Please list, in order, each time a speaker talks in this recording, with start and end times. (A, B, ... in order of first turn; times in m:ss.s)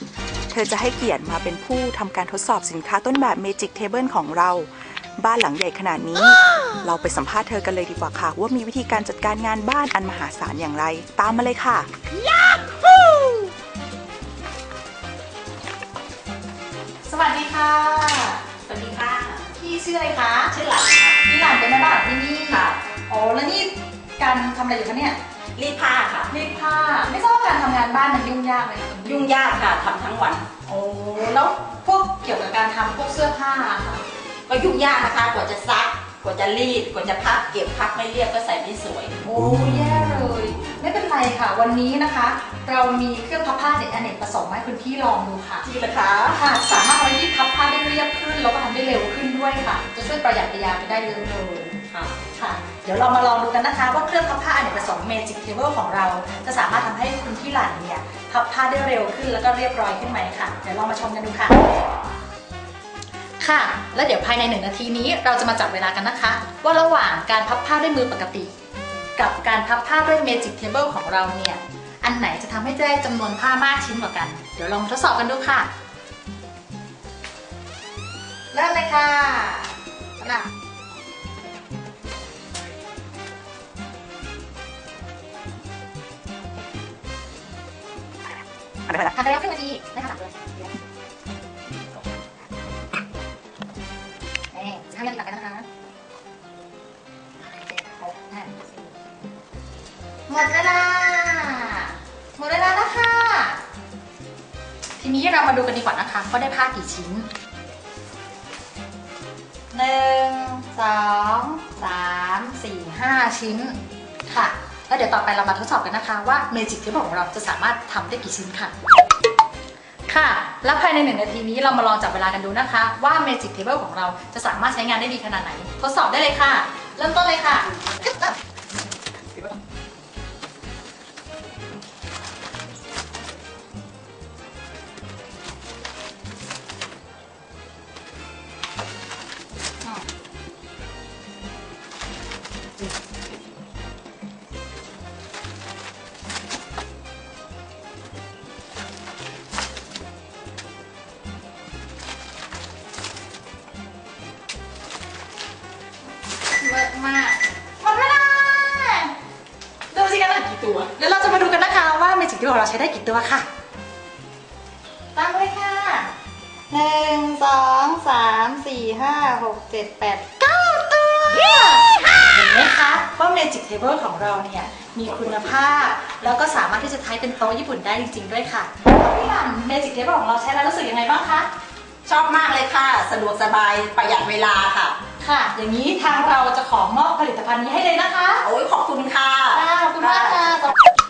0:00.5-0:11.9 A
0:17.0-0:18.4 B
0:18.7-0:19.5 C
0:19.6-0:20.6 B
0:20.5-0:21.2 C
0:21.2-0:25.2 B
0:22.5-0:22.8 C
0:25.6-0:26.3 C
0:26.3-0:29.3 B
0:29.1-0:30.5 C
0:30.7-0:34.0 B
0:34.5-0:39.2 C
0:39.2-0:45.6 B
0:45.6-0:46.4 C
0:46.3-1:01.6 B
1:03.4-1:08.5 B
1:09.2-1:15.7 B
1:18.5-1:20.5 B
1:29.0-1:30.7 B
1:34.5-1:35.7 B
1:37.5-1:38.9 B
1:40.3-1:43.6 B
1:45.0-1:47.3 B
1:49.7-1:58.8 B
2:00.1-2:08.3 B
2:36.6-2:39.1 B
2:39.9-2:43.5 B
2:45.1-2:46.1 B
2:46.7-3:01.5 B
3:02.1-3:05.0 C
3:05.2-3:08.5 B
3:08.4-3:10.7 C
3:09.5-3:10.8 B